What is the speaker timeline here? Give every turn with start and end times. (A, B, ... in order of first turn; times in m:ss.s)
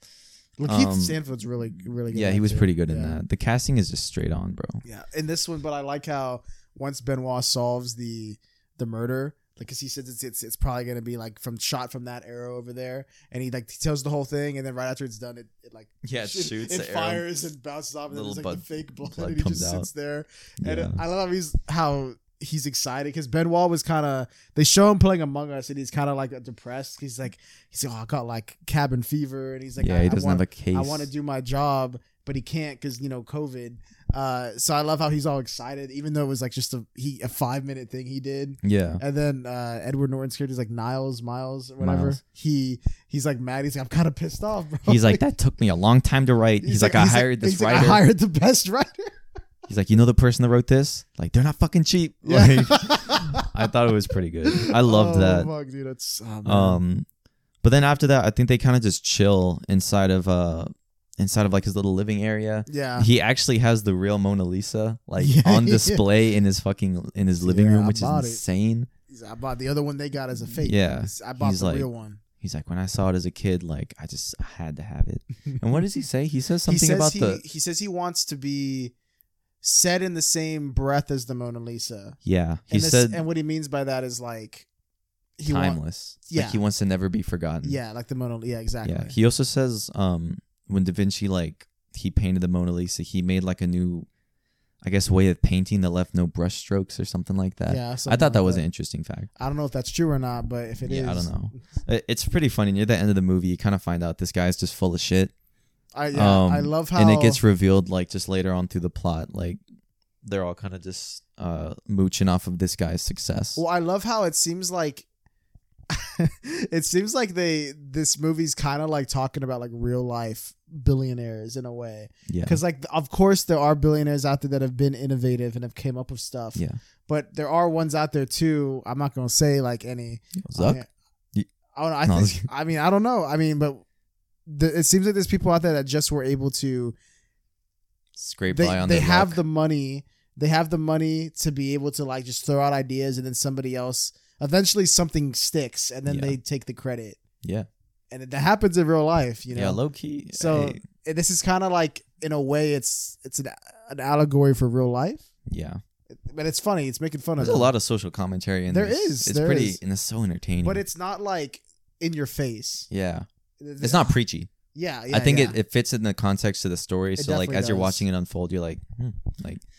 0:00.6-0:03.2 A
0:00.6-0:01.2 B
0:02.1-0:04.8 B
0:04.8-0:45.2 A
0:16.0-0:17.5 B
0:18.1-0:19.9 B
0:20.6-0:21.0 B
0:29.8-0:31.1 B
0:38.6-0:39.0 B
0:41.8-0:42.2 B
0:44.9-0:48.0 B
0:46.6-0:49.1 A
0:49.7-0:55.5 B
0:52.3-0:53.5 A
0:54.5-0:56.8 A
0:56.4-0:57.1 B
0:57.6-1:08.9 B
1:02.7-1:03.1 A
1:05.2-1:06.0 A
1:07.4-1:08.4 A
1:09.1-1:12.2 A
1:10.6-1:11.9 B
1:12.4-1:17.4 B
1:16.7-1:18.9 A
1:19.6-1:22.2 A
1:22.2-1:23.2 B
1:22.7-1:24.7 A
1:25.4-1:26.6 A
1:25.5-1:27.8 B
1:27.6-1:29.2 A
1:28.8-1:34.1 B
1:34.8-1:39.3 B
1:37.7-1:38.6 A
1:39.4-1:41.6 A
1:40.9-1:45.3 B
1:46.0-1:47.4 A
1:46.1-1:49.6 B
1:50.2-1:53.6 B
1:53.6-1:55.1 A
1:55.9-2:10.9 A
2:02.3-2:02.6 B
2:10.4-2:10.8 B
2:11.7-2:13.8 A
2:12.1-2:12.5 B
2:14.5-2:17.0 A
2:18.2-2:19.4 B
2:18.5-2:27.2 A
2:26.1-2:26.4 B
2:27.4-2:27.7 B
2:28.1-2:29.8 A
2:29.5-2:30.8 B
2:30.3-2:35.3 A
2:35.5-2:35.8 B
2:36.1-2:37.7 A
2:37.4-2:40.8 B
2:38.7-2:39.8 A
2:40.6-2:42.9 A
2:42.9-2:43.3 B
2:43.6-2:44.2 A
2:43.8-2:44.5 B
2:44.7-2:45.6 A
2:45.1-2:49.6 B
2:47.2-2:48.0 A